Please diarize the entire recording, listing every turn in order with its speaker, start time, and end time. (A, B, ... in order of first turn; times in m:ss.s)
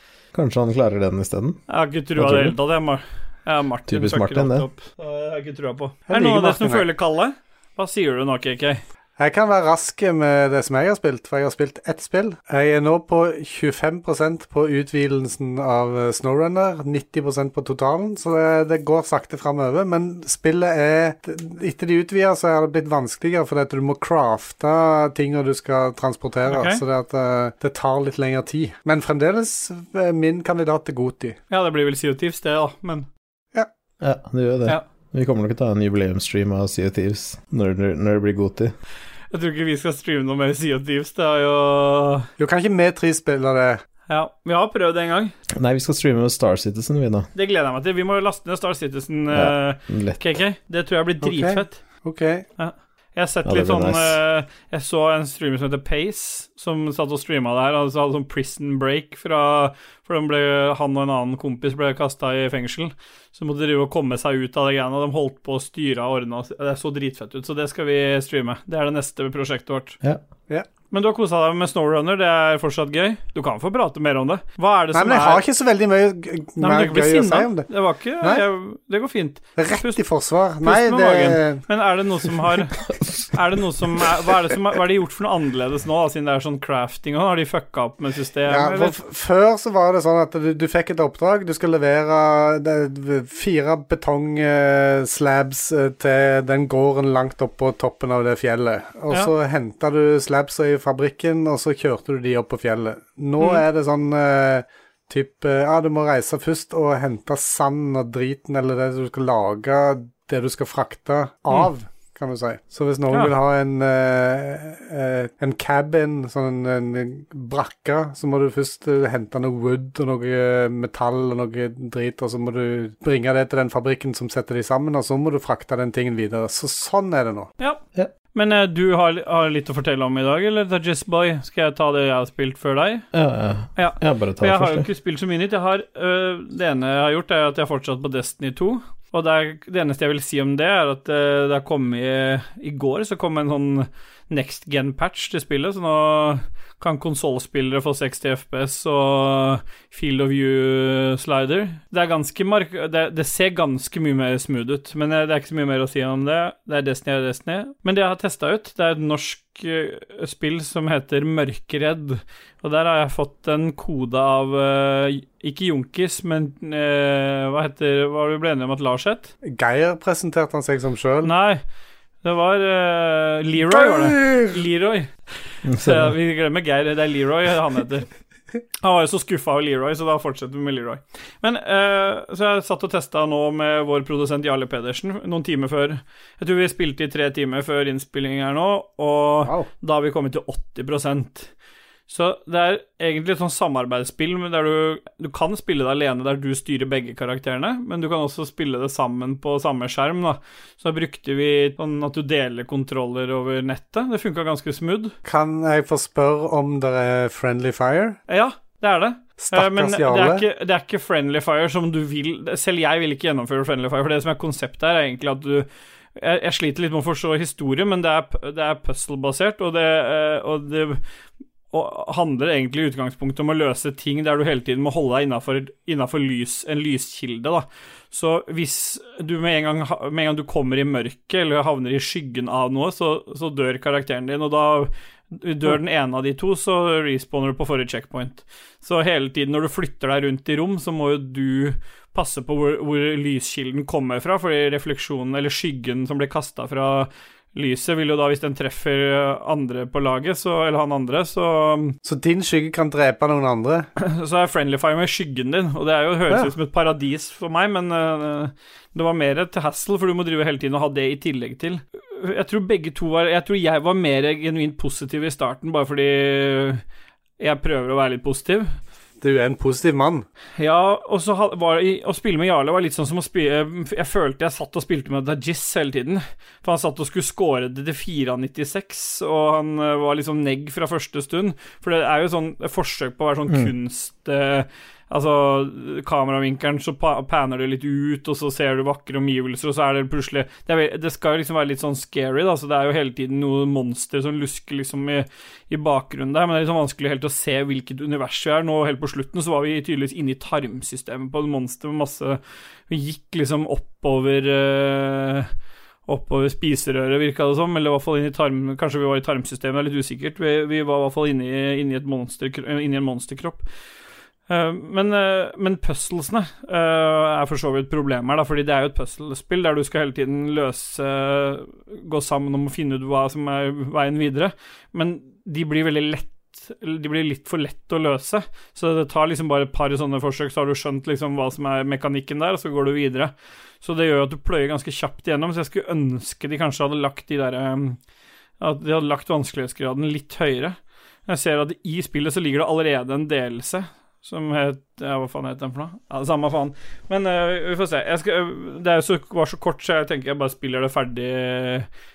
0:00.3-0:01.6 A
0:01.7-0:08.8 B
0:02.1-0:02.6 A
0:03.9-0:04.7 A
0:06.1-0:06.8 C
0:09.2-0:31.4 C
0:26.5-0:26.8 B
0:31.5-0:33.1 B
0:34.0-0:38.7 A
0:39.3-0:42.3 B
0:42.4-0:43.8 C
0:44.1-0:45.3 B
0:45.5-0:47.3 A
0:47.3-0:51.8 B
0:49.3-0:50.4 A
0:51.2-0:52.4 C
0:52.6-1:10.0 B
0:53.4-0:54.2 A
1:10.9-1:15.4 B
1:14.9-1:17.7 C
1:16.6-1:20.0 B
1:19.6-1:21.6 C
1:20.6-1:22.8 B
1:23.3-1:28.9 B
1:28.5-2:07.5 C
2:08.3-2:13.0 B
2:13.1-2:14.9 A
2:13.8-2:49.3 B
2:49.4-2:51.3 C
2:51.2-2:51.6 B
2:52.2-2:58.1 B
2:53.7-2:54.6 C
2:55.6-2:56.1 A
2:58.8-3:11.5 B
3:12.1-3:25.1 B
3:25.2-3:28.2 C
3:28.3-3:41.0 B
3:29.4-3:30.4 C
3:41.7-4:12.0 B
4:12.0-4:13.9 C
4:14.0-4:26.8 B
4:27.4-4:28.7 B
4:29.2-4:30.2 C
4:30.6-5:05.5 B
5:06.1-5:13.6 B
5:14.5-5:38.0 B
5:38.6-5:40.8 B
5:41.3-5:51.9 B